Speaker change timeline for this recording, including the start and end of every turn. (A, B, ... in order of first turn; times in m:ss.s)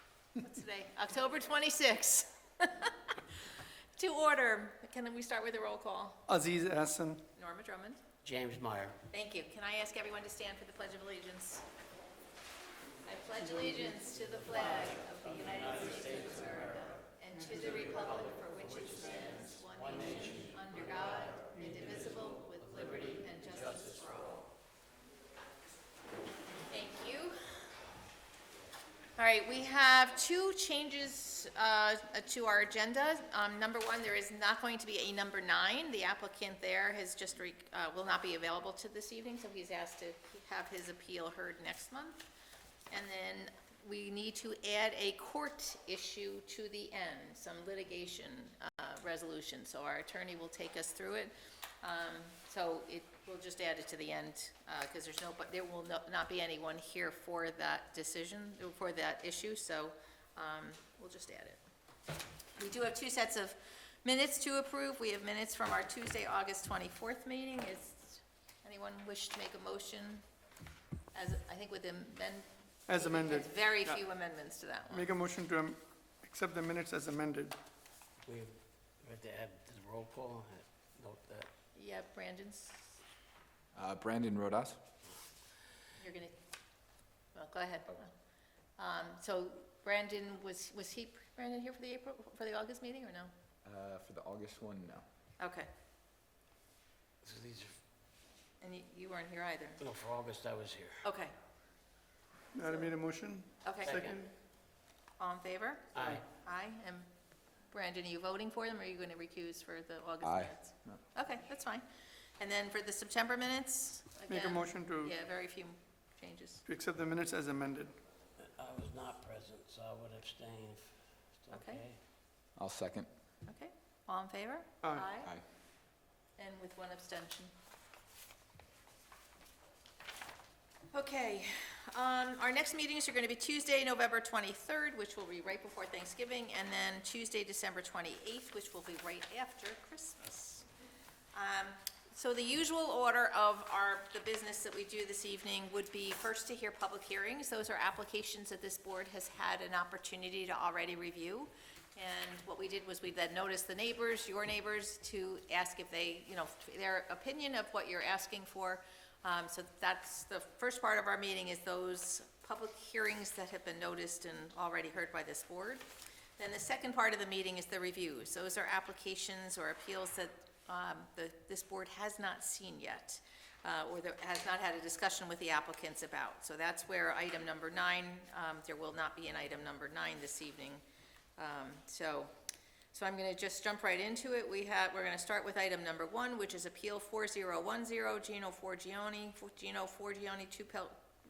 0:00.4-0:06.3 A
0:06.3-0:07.2 B
0:07.4-0:08.0 A
0:08.2-0:09.0 C
0:09.1-0:11.6 A
0:13.1-0:24.4 A
0:19.7-0:20.5 C
0:22.6-0:24.2 C
0:26.7-0:27.4 A
0:29.2-0:42.3 A
0:42.9-1:01.6 A
1:02.6-1:10.2 A
1:11.1-1:15.1 A
1:12.9-1:14.0 B
1:14.9-1:17.6 B
1:18.2-1:21.5 C
1:21.8-1:23.0 A
1:23.7-1:24.8 D
1:26.0-1:26.4 A
1:27.3-1:28.1 A
1:28.8-1:33.3 A
1:33.6-1:35.0 D
1:35.4-1:35.7 A
1:37.2-1:37.8 C
1:38.6-1:39.8 A
1:39.8-1:41.1 C
1:41.0-1:41.3 A
1:42.5-1:44.3 B
1:43.6-1:44.1 A
1:43.9-1:44.2 C
1:45.2-1:47.1 A
1:45.9-1:46.2 C
1:47.7-1:51.9 A
1:50.2-1:50.9 D
1:52.4-1:56.6 A
1:54.3-1:55.2 B
1:56.6-1:58.0 B
1:58.4-2:02.0 C
2:01.5-2:01.9 A
2:02.6-2:03.1 D
2:03.5-2:05.4 A
2:06.4-2:07.5 A
2:10.9-2:20.7 A
2:21.3-2:45.9 A
2:46.4-3:00.8 A
3:01.4-3:02.3 A
3:02.9-3:11.0 A